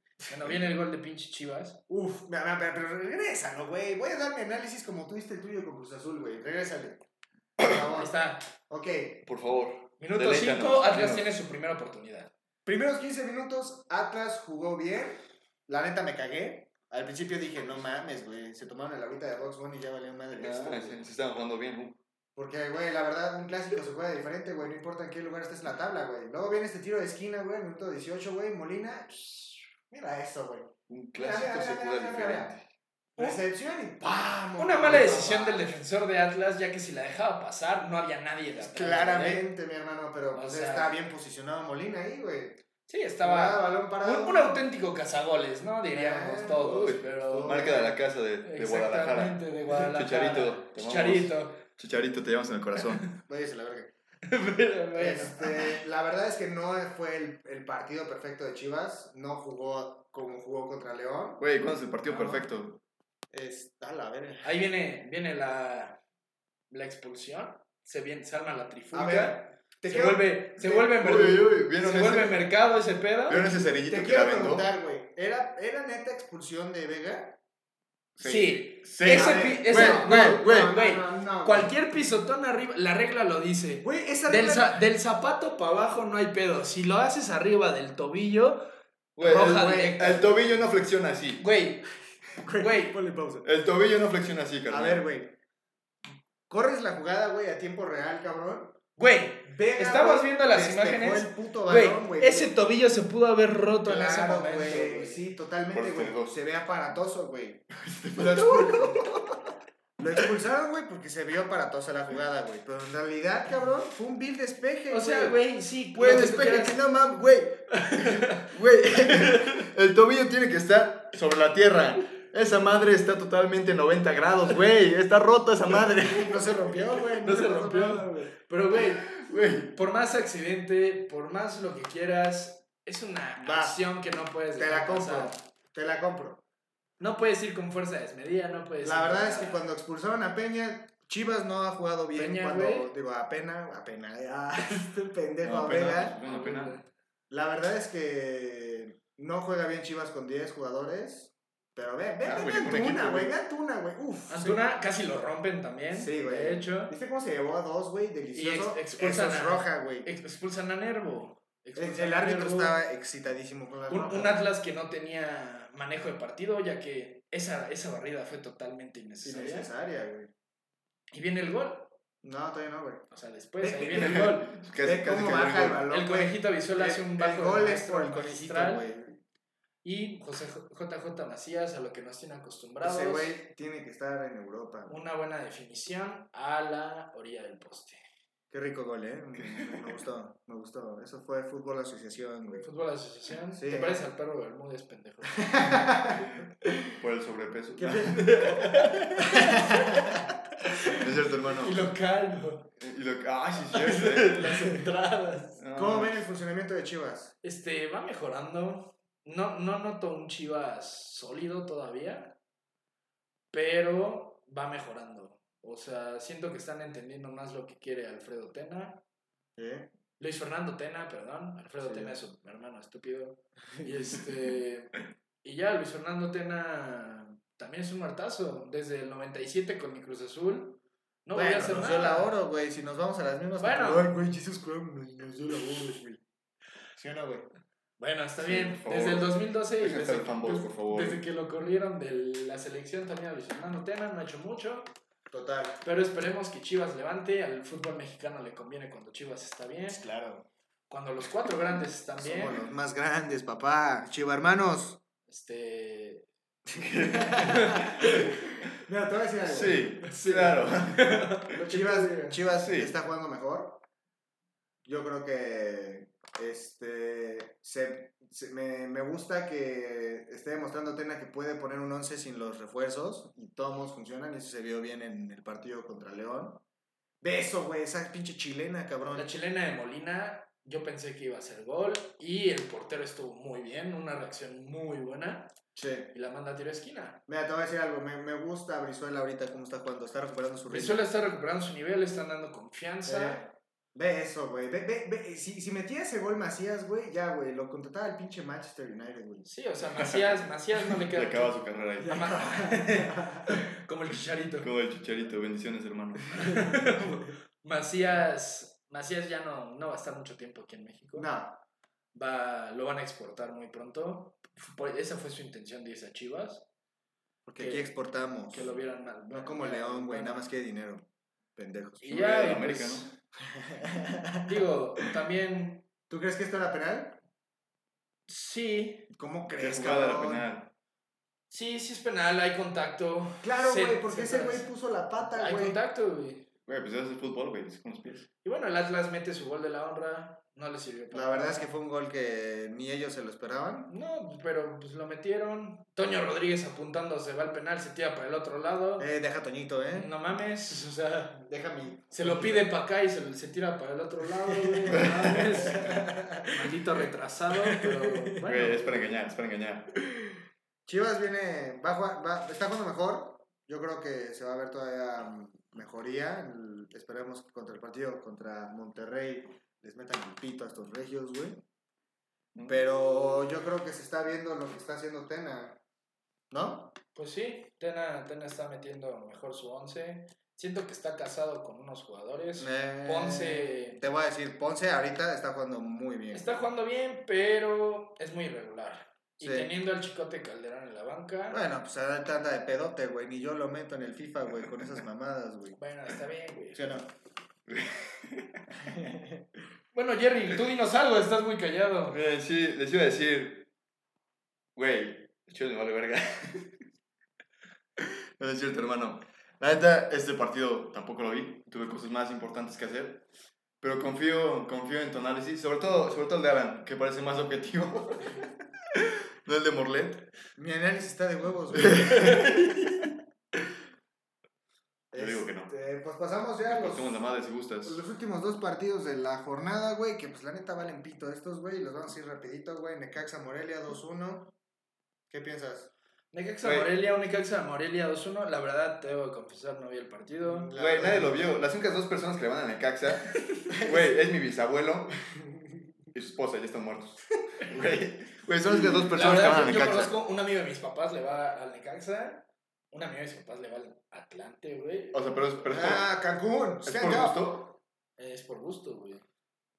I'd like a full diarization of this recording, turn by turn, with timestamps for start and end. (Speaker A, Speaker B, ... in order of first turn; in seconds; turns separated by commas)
Speaker A: 0.2-1.8, Speaker B: 1.9-7.0, Speaker B: 7.6-8.1, Speaker A: 7.8-8.5, Speaker B: 8.7-9.2, Speaker C: 9.2-11.3, Speaker A: 10.0-12.3, Speaker B: 12.6-21.0, Speaker C: 20.4-22.0, Speaker B: 22.4-32.5, Speaker C: 30.9-32.6, Speaker B: 33.1-35.7, Speaker A: 34.6-39.5, Speaker B: 38.6-42.6, Speaker A: 40.3-40.9, Speaker A: 42.9-47.7, Speaker B: 43.2-44.6, Speaker B: 45.9-48.0, Speaker C: 46.6-53.0, Speaker A: 48.4-51.6, Speaker B: 53.2-53.9, Speaker A: 54.2-55.7, Speaker B: 54.9-61.4, Speaker C: 61.4-62.8, Speaker B: 62.1-62.4, Speaker B: 63.3-64.5, Speaker A: 64.4-66.0, Speaker A: 66.7-73.4, Speaker B: 68.9-70.9, Speaker C: 71.0-72.5, Speaker C: 73.3-74.6, Speaker B: 73.8-77.4, Speaker C: 78.2-80.7, Speaker A: 78.2-88.6, Speaker B: 79.0-81.7, Speaker B: 83.8-84.8, Speaker C: 89.2-91.4, Speaker B: 89.2-90.2, Speaker A: 89.2-90.3, Speaker A: 91.4-91.9, Speaker B: 92.4-93.5, Speaker A: 92.6-93.0, Speaker C: 93.4-95.0, Speaker B: 94.7-95.3, Speaker B: 96.5-98.8, Speaker A: 99.0-105.2, Speaker B: 99.5-102.5, Speaker B: 103.9-109.2, Speaker C: 105.7-106.3, Speaker C: 107.8-109.2, Speaker B: 110.0-115.4, Speaker A: 114.9-116.8, Speaker C: 116.0-126.8, Speaker A: 117.7-118.5, Speaker A: 119.1-119.4, Speaker B: 125.8-128.3, Speaker A: 127.2-129.1, Speaker C: 128.7-129.7, Speaker A: 129.7-135.3, Speaker B: 133.4-133.8, Speaker B: 134.5-136.4, Speaker A: 137.0-139.6, Speaker B: 138.8-146.2, Speaker A: 142.1-142.9, Speaker C: 145.4-146.8, Speaker A: 146.2-146.8, Speaker B: 147.3-154.6, Speaker C: 152.2-153.3, Speaker A: 154.3-156.9, Speaker B: 155.9-160.1, Speaker A: 158.3-162.8, Speaker B: 161.8-164.4, Speaker A: 163.9-169.7, Speaker B: 169.2-170.3, Speaker A: 171.1-171.9, Speaker B: 172.2-173.1, Speaker A: 173.1-174.6, Speaker B: 173.6-179.2, Speaker C: 173.9-175.8, Speaker A: 175.9-178.9, Speaker A: 179.8-183.3, Speaker B: 182.8-185.0, Speaker A: 184.9-188.0, Speaker B: 188.5-192.7, Speaker C: 189.4-189.9, Speaker A: 192.6-196.2, Speaker B: 193.5-194.0, Speaker B: 195.4-196.3, Speaker C: 197.0-199.5, Speaker B: 197.8-198.6, Speaker A: 198.2-202.7, Speaker B: 199.3-200.2, Speaker C: 200.8-201.9, Speaker C: 202.8-204.8, Speaker A: 203.7-205.6, Speaker C: 205.6-206.3, Speaker B: 205.7-207.3, Speaker A: 207.4-212.3, Speaker A: 213.5-219.0, Speaker B: 219.6-219.9, Speaker A: 220.2-232.3, Speaker B: 221.8-222.1, Speaker B: 223.8-224.1, Speaker B: 231.3-236.2, Speaker A: 233.6-234.1, Speaker B: 236.9-237.5, Speaker A: 238.0-244.9, Speaker C: 238.4-241.2, Speaker B: 245.3-245.8, Speaker A: 245.8-250.0, Speaker B: 249.9-250.4, Speaker A: 250.9-252.6, Speaker B: 252.2-255.0, Speaker A: 255.3-256.3, Speaker B: 256.8-258.2, Speaker C: 256.8-258.3, Speaker A: 257.1-258.3, Speaker B: 258.7-259.9, Speaker C: 259.4-261.5, Speaker A: 259.5-262.4, Speaker B: 261.6-263.8, Speaker C: 262.4-262.9, Speaker B: 264.8-276.6, Speaker B: 277.2-279.3, Speaker A: 279.1-285.5, Speaker B: 285.7-286.1, Speaker A: 286.1-287.2, Speaker B: 287.3-291.0, Speaker A: 290.7-293.4, Speaker B: 293.0-299.5, Speaker A: 299.4-304.7, Speaker C: 300.9-302.4, Speaker B: 302.0-303.6, Speaker C: 304.6-306.8, Speaker A: 306.3-311.3, Speaker B: 311.1-311.6, Speaker A: 312.1-316.6, Speaker B: 317.4-318.7, Speaker A: 317.6-317.9, Speaker A: 318.5-320.5, Speaker B: 319.3-322.1, Speaker A: 322.0-323.1, Speaker C: 322.1-323.1, Speaker B: 323.4-324.4, Speaker A: 324.4-325.8, Speaker B: 326.1-327.2, Speaker A: 328.3-329.1, Speaker B: 329.1-330.5, Speaker C: 329.6-330.7, Speaker A: 331.5-334.7, Speaker B: 333.4-335.8, Speaker A: 335.2-336.5, Speaker C: 336.7-338.3, Speaker A: 338.4-341.7, Speaker B: 341.1-343.9, Speaker A: 343.9-349.1, Speaker B: 349.0-350.1, Speaker A: 349.9-351.4, Speaker B: 351.4-352.7, Speaker A: 352.1-359.1, Speaker B: 354.4-356.7, Speaker C: 354.9-355.5, Speaker B: 357.7-358.4, Speaker C: 358.4-359.9, Speaker B: 360.9-371.6, Speaker C: 372.5-372.8, Speaker B: 372.6-375.8, Speaker B: 376.5-376.9, Speaker A: 377.1-384.0, Speaker B: 382.6-386.5, Speaker A: 386.3-391.6, Speaker B: 389.4-389.7, Speaker B: 391.5-395.8, Speaker A: 395.7-396.9, Speaker B: 396.7-397.1, Speaker C: 397.7-398.6, Speaker B: 398.8-399.4, Speaker A: 399.9-402.2, Speaker C: 402.1-403.7, Speaker C: 404.8-406.8, Speaker C: 408.0-413.2, Speaker C: 413.8-420.2, Speaker B: 420.6-422.7, Speaker C: 421.7-423.1, Speaker B: 425.1-427.1, Speaker C: 425.1-425.7, Speaker C: 426.7-428.0, Speaker B: 427.8-434.5, Speaker B: 435.3-435.9, Speaker A: 436.3-440.7, Speaker C: 436.6-436.9, Speaker B: 440.4-441.5, Speaker C: 440.7-445.1, Speaker A: 443.3-443.6, Speaker C: 446.1-450.1, Speaker A: 449.1-455.6, Speaker C: 455.1-456.1, Speaker B: 455.6-457.4, Speaker C: 456.8-457.8, Speaker A: 458.2-459.2